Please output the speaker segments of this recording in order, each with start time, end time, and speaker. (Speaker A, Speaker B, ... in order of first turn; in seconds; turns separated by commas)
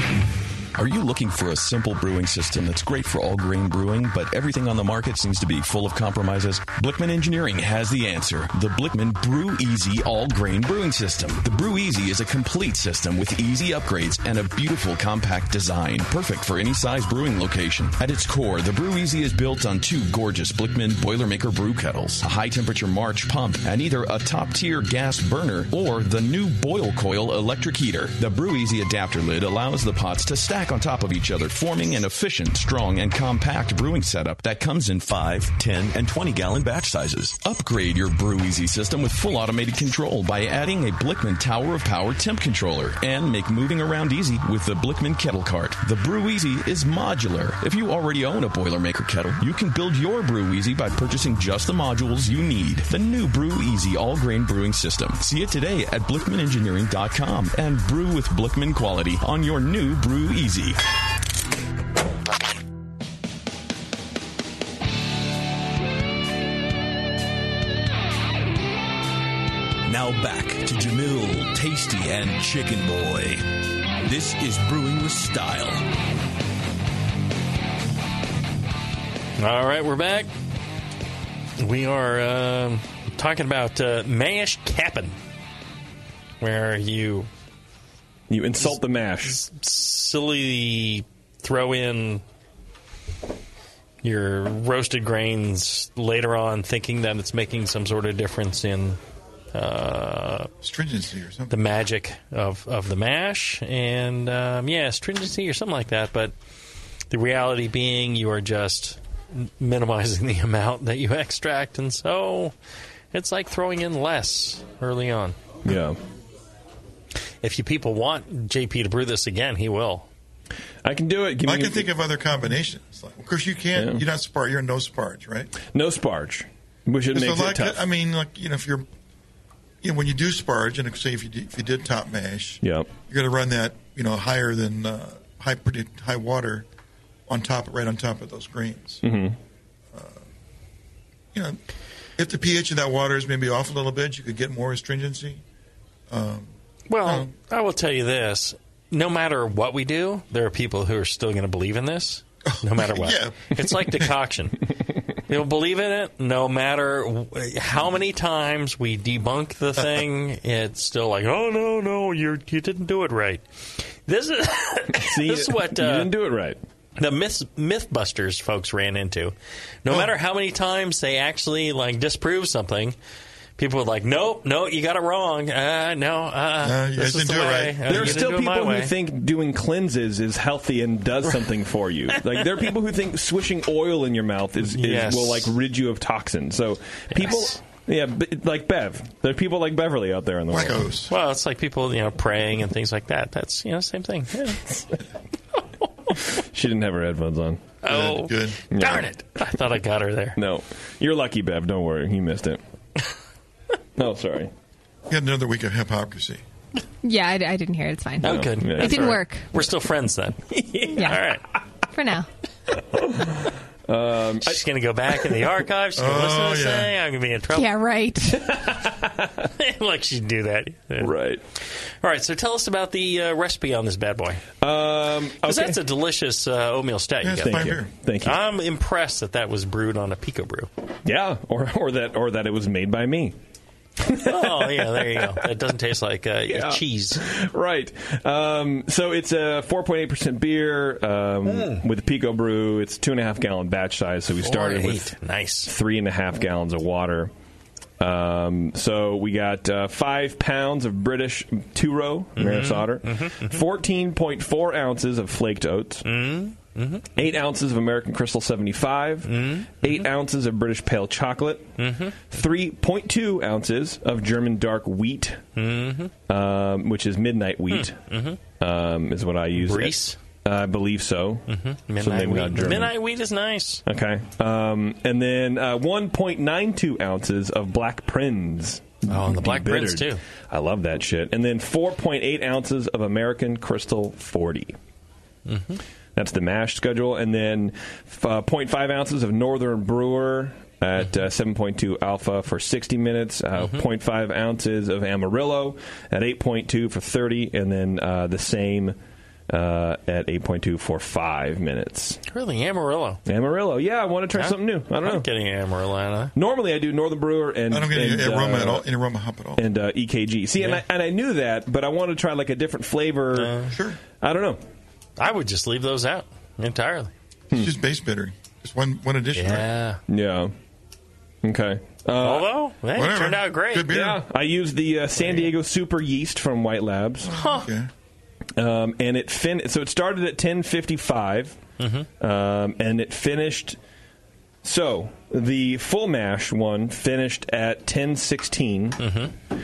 Speaker A: 0.8-60.8, Speaker A: 69.9-75.8, Speaker B: 79.4-80.3, Speaker B: 81.6-85.2, Speaker B: 86.4-87.3, Speaker C: 88.3-89.4, Speaker B: 88.6-92.2, Speaker B: 94.0-99.0, Speaker B: 99.5-100.5, Speaker D: 100.6-101.5, Speaker B: 101.5-106.3, Speaker B: 107.1-112.5, Speaker B: 113.1-115.4, Speaker C: 115.7-116.0, Speaker B: 117.4-120.1, Speaker C: 120.8-121.9, Speaker D: 121.5-125.5, Speaker C: 123.8-124.0, Speaker C: 125.7-127.8, Speaker D: 127.1-128.9, Speaker D: 129.8-136.7, Speaker C: 132.6-132.9, Speaker D: 137.3-139.0, Speaker C: 139.0-139.4, Speaker D: 139.9-140.2, Speaker D: 141.3-141.6, Speaker D: 142.2-145.4, Speaker D: 146.1-146.5, Speaker B: 146.9-154.6, Speaker D: 147.0-147.3, Speaker D: 152.5-154.0, Speaker B: 155.3-163.4, Speaker B: 164.1-166.1, Speaker C: 165.0-166.6, Speaker B: 167.0-173.0, Speaker B: 173.6-178.9, Speaker D: 176.6-178.3, Speaker C: 177.9-190.9, Speaker B: 184.7-185.5, Speaker B: 187.1-187.6, Speaker D: 190.5-191.1, Speaker B: 191.1-194.7, Speaker C: 196.3-197.6, Speaker B: 197.8-200.4, Speaker D: 197.9-198.6, Speaker C: 198.7-199.1, Speaker C: 200.4-202.6, Speaker C: 204.0-204.5, Speaker D: 205.1-206.4, Speaker E: 207.0-209.5, Speaker B: 208.2-211.4, Speaker C: 208.2-209.2, Speaker C: 210.5-211.2, Speaker E: 210.9-211.2, Speaker E: 211.9-212.3, Speaker C: 212.9-214.6, Speaker B: 214.4-217.8, Speaker D: 216.0-216.9, Speaker E: 217.5-218.5, Speaker C: 218.4-219.2, Speaker B: 219.4-224.4, Speaker C: 221.0-221.4, Speaker C: 224.6-225.8, Speaker B: 225.4-230.7, Speaker D: 227.2-227.9, Speaker C: 227.4-228.4, Speaker C: 231.1-233.4, Speaker C: 234.0-235.4, Speaker B: 234.1-237.2, Speaker C: 236.5-245.2, Speaker B: 241.5-241.8, Speaker B: 244.4-245.7, Speaker C: 245.7-247.3, Speaker C: 248.0-256.1, Speaker B: 252.4-253.6, Speaker B: 256.1-257.1, Speaker C: 257.2-265.4, Speaker B: 259.3-260.1, Speaker B: 261.8-262.2, Speaker B: 265.6-266.1, Speaker C: 266.3-268.0, Speaker B: 267.7-268.4, Speaker C: 268.6-272.9, Speaker B: 269.6-270.2, Speaker B: 271.5-273.8, Speaker C: 273.9-284.8, Speaker B: 279.1-280.2, Speaker B: 285.5-285.8, Speaker C: 286.2-299.0, Speaker C: 299.5-302.2, Speaker B: 302.3-303.2, Speaker C: 303.3-305.3, Speaker B: 304.3-306.3, Speaker C: 306.4-308.9, Speaker D: 307.7-309.6, Speaker C: 309.6-313.6, Speaker B: 313.3-313.8, Speaker D: 313.7-314.0, Speaker C: 314.2-314.6, Speaker B: 315.2-317.1, Speaker D: 317.5-319.7, Speaker B: 319.4-320.0, Speaker C: 320.1-320.5, Speaker C: 321.4-322.5, Speaker B: 322.2-323.9, Speaker D: 322.9-324.2, Speaker C: 323.9-327.3, Speaker B: 325.2-325.5, Speaker D: 327.3-327.9, Speaker B: 327.3-327.7, Speaker C: 328.6-331.6, Speaker B: 331.8-332.1, Speaker C: 332.2-333.8, Speaker C: 334.6-339.0, Speaker B: 339.0-339.3